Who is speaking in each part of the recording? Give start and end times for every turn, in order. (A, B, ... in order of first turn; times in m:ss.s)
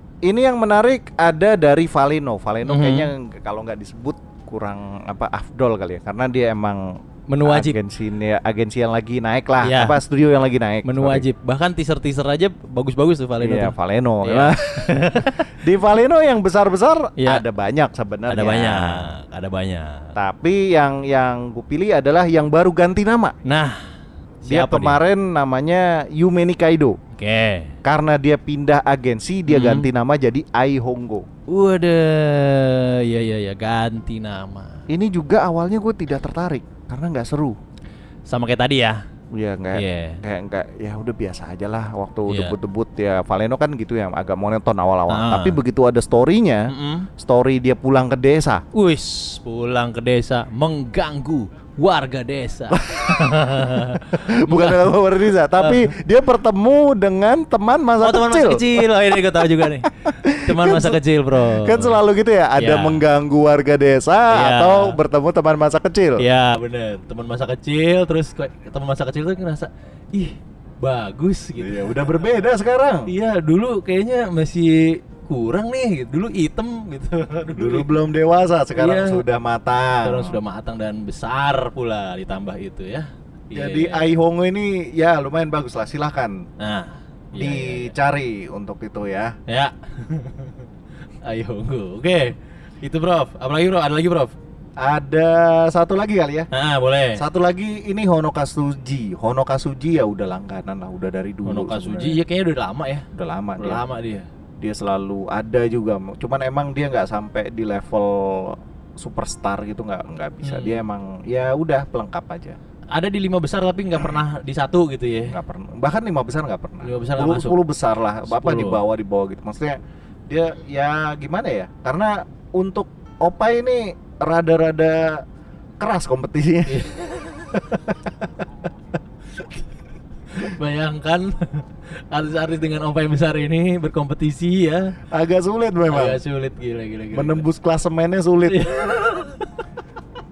0:00.2-0:11.3 A
0:02.6-0:03.1 B
0:07.3-0:07.8 B
0:09.6-0:10.0 B
0:10.8-0:15.5 B
0:13.4-0:19.1 A
0:17.2-0:17.4 B
0:18.3-0:20.2 B
0:20.2-0:23.4 A
0:23.4-0:23.8 B
0:24.4-0:25.0 B
0:24.5-0:27.0 A
0:27.2-0:27.8 B
0:27.8-0:31.3 A
0:29.5-0:29.9 B
0:31.5-0:34.8 B
0:34.9-0:37.6 A
0:38.3-0:39.0 B
0:39.3-0:48.6 A
0:39.7-0:40.2 B
0:42.3-0:42.6 B
0:45.1-0:45.6 B
0:46.7-0:47.1 B
0:48.7-0:54.9 B
0:52.7-1:06.2 A
0:55.6-0:55.9 B
0:58.0-1:02.0 B
1:02.6-1:03.0 B
1:04.3-1:05.0 B
1:06.2-1:12.2 B
1:11.6-1:13.1 A
1:13.1-1:17.9 B
1:17.5-1:20.4 A
1:18.8-1:19.2 B
1:20.0-1:24.1 B
1:23.5-1:26.4 A
1:26.6-1:27.9 B
1:27.4-1:29.4 A
1:29.5-1:30.6 B
1:31.2-1:34.4 B
1:34.8-1:36.5 A
1:36.5-1:37.2 B
1:37.2-1:42.2 A
1:41.4-1:43.1 B
1:43.1-1:43.8 A
1:43.6-1:44.3 B
1:44.6-1:52.6 A
1:50.4-1:50.8 B
1:52.9-1:55.4 B
1:55.3-2:05.2 A
1:56.8-1:57.6 B
1:58.3-1:58.8 B
2:05.8-2:06.8 A
2:06.7-2:07.7 B
2:07.7-2:08.3 A
2:10.3-2:15.0 B
2:15.1-2:16.2 A
2:15.9-2:17.4 B
2:17.1-2:19.0 A
2:18.5-2:19.5 B